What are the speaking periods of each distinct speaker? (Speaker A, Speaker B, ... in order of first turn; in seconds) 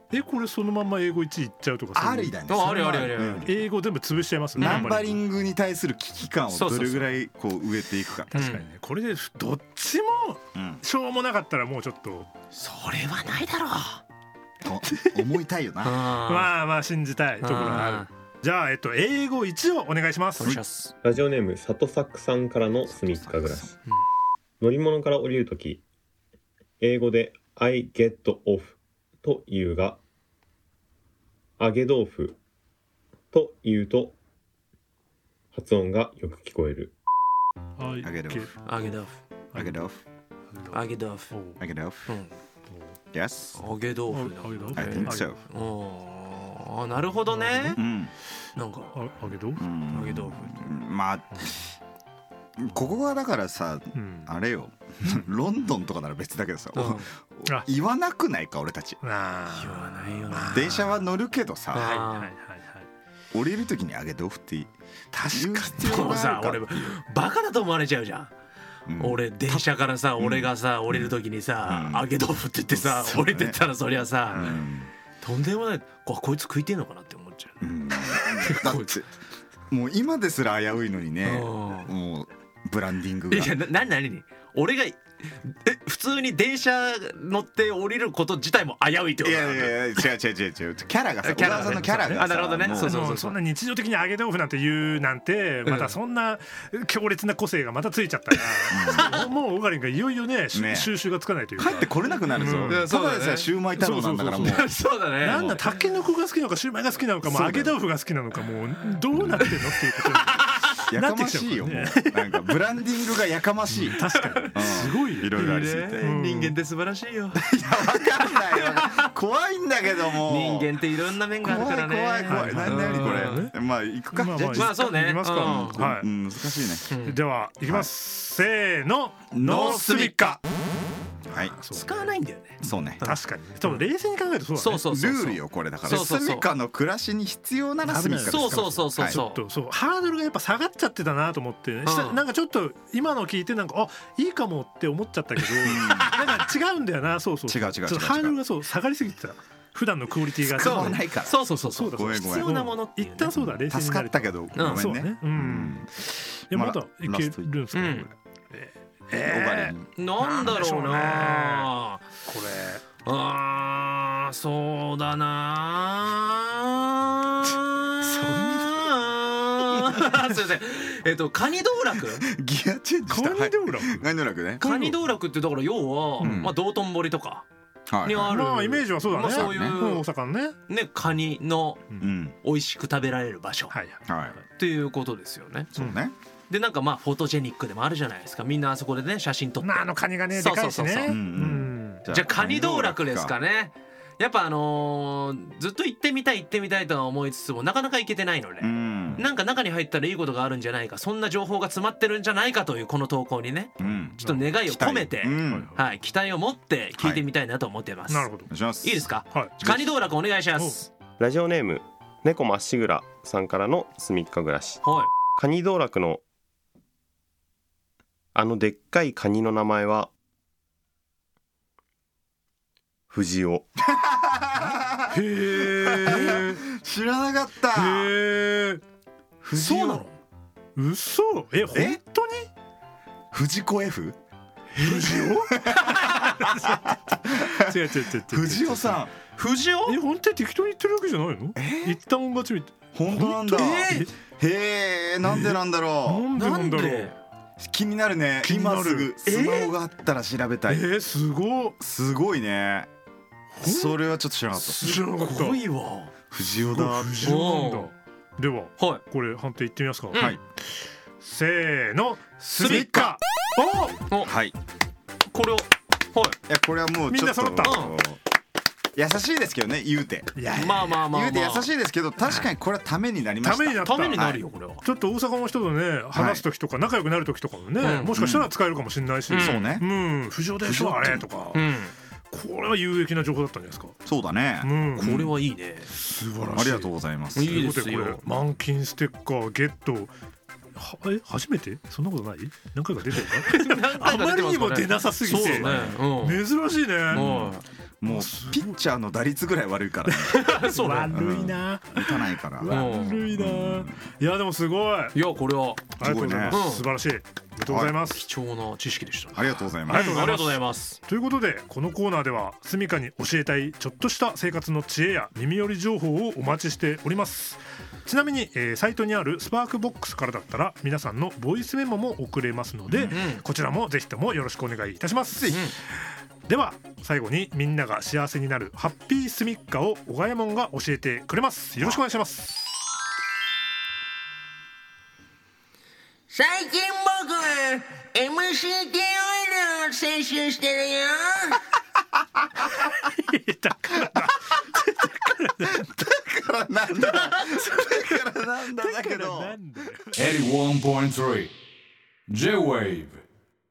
Speaker A: 0.1-2.3, 3.5-5.2, 8.3-12.3, 16.2-20.6, 37.8-38.5, 40.5-40.8, 41.3-41.6, 42.7-42.9, 44.1-45.3, 47.3-47.8, 49.0-49.6, 53.9-54.3, 59.0-60.8, 61.8-62.9, 65.2-65.5, 91.5-92.2, 92.8-102.8, 103.7-112.0, 113.7-115.3, 116.0-116.5, 122.3-123.5, 124.1-126.1, 126.9-130.4, 131.5-132.2, 133.0-134.8, 137.8-151.1, 151.7-155.9, 156.5-161.7, 162.2-162.8, 168.2-168.8, 173.1-174.1, 174.6-174.9, 178.3-180.5, 183.7-184.3, 189.6-192.0, 203.8-204.4, 205.5-205.7, 208.1-208.5, 210.5-210.8, 225.1-226.6, 227.8-228.8, 229.6-230.0, 230.8-232.5, 234.8-235.8, 236.5-239.0, 239.8-244.1, 245.3-245.6, 246.1-247.1, 248.4-249.1, 250.7-251.7, 253.6-253.9, 254.6-255.6, 256.5-260.3, 261.2-263.9, 267.1-267.8, 270.4-270.9, 273.4-274.2, 274.8-281.6, 282.3-283.9, 284.6-285.1, 286.0-290.1, 290.8-297.5, 298.0-298.7, 300.5-305.1, 306.0-308.2, 309.9-325.6, 326.5-332.6, 343.3-344.3, 349.0-351.5, 352.3-353.2
Speaker B: 1.9-3.5, 4.5-8.3, 10.5-10.8, 14.6-16.1, 22.9-23.7, 38.0-38.5, 39.5-40.0, 41.6-42.1, 43.1-43.6, 44.7-45.4, 47.7-48.1, 49.6-51.5, 52.6-59.0, 60.3-61.9, 63.3-64.7, 65.2-67.0, 68.9-72.1, 72.7-73.6, 74.3-74.9, 77.6-79.1, 79.7-83.6, 89.2-93.0, 98.7-99.2, 100.5-104.7, 107.2-107.8, 109.1-109.4, 110.9-116.1, 117.3-120.7, 121.4-126.9, 129.3-130.3, 131.3-131.6, 132.6-133.0, 134.8-139.2, 145.6-146.2, 147.5-148.4, 150.4-152.7, 153.3-155.9, 156.5-158.0, 159.1-159.9, 172.2-174.7, 176.2-176.6, 177.9-178.4, 179.0-179.8, 182.0-182.3, 184.1-184.4, 185.7-186.1, 191.1-193.3, 198.6-199.2, 203.8-205.7, 208.5-209.9, 223.9-228.2, 229.4-230.0, 231.7-232.0, 233.3-234.2, 234.9-239.1, 241.6-242.0, 242.9-246.3, 247.6-250.9, 251.8-252.9, 253.6-254.9, 256.3-257.4, 260.1-260.4, 262.6-263.1, 264.2-264.5, 266.5-268.2, 268.9-274.4, 276.1-276.4, 278.1-278.5, 279.3-279.9, 280.6-281.2, 284.0-285.3, 286.5-287.6, 295.4-296.0, 297.1-300.5, 301.1-304.0, 306.0-306.6, 307.6-308.0, 309.3-310.3, 322.9-323.2, 345.7-349.6
Speaker C: 2.5-3.5, 4.6-5.0, 6.5-7.1, 8.3-8.7, 12.5-14.0, 15.8-16.5, 17.4-18.1, 20.4-20.9, 38.6-39.2, 40.7-41.3, 42.1-42.3, 43.5-47.8, 48.5-49.1, 49.9-50.7, 56.7-57.1, 59.5-60.9, 61.7-62.4, 65.6-68.3, 69.0-74.6, 75.2-79.0, 81.2-81.9, 83.3-90.1, 91.2-93.4, 95.6-96.0, 98.4-99.2, 102.3-103.5, 104.3-106.0, 109.4-110.8, 114.0-119.1, 120.1-123.5, 124.5-125.8, 126.9-127.2, 129.5-130.1, 131.7-133.8, 134.5-136.5, 138.2-139.4, 141.8-142.2, 145.5-146.1, 150.5-153.3, 154.6-154.9, 157.7-158.1, 159.9-162.1, 163.0-172.3, 174.6-177.4, 178.0-180.1, 180.7-181.9, 182.4-183.7, 184.6-185.7, 186.5-191.2, 192.1-210.9, 214.8-215.1, 226.0-226.4, 229.6-230.1, 234.8-236.3, 239.3-240.0, 243.5-244.1, 246.3-247.2, 249.2-249.7, 254.8-256.1, 257.2-257.9, 258.8-259.0, 260.1-260.4, 262.5-263.1, 265.3-266.4, 267.6-268.0, 270.5-271.7, 272.2-272.5, 273.8-274.8, 277.8-278.1, 279.3-279.8, 281.5-281.9, 285.0-285.9, 287.3-288.2, 293.1-296.4, 297.1-297.6, 300.3-301.2, 302.7-303.2, 305.1-305.9, 306.5-306.9, 308.1-311.0, 323.1-323.4, 325.4-325.8
Speaker D: 21.0-23.7, 24.6-25.8, 26.8-30.0, 31.6-32.4, 33.3-34.2, 35.5-36.9, 211.2-214.8, 215.3-216.2, 218.3-220.1, 223.1-223.6
Speaker E: 336.3-341.6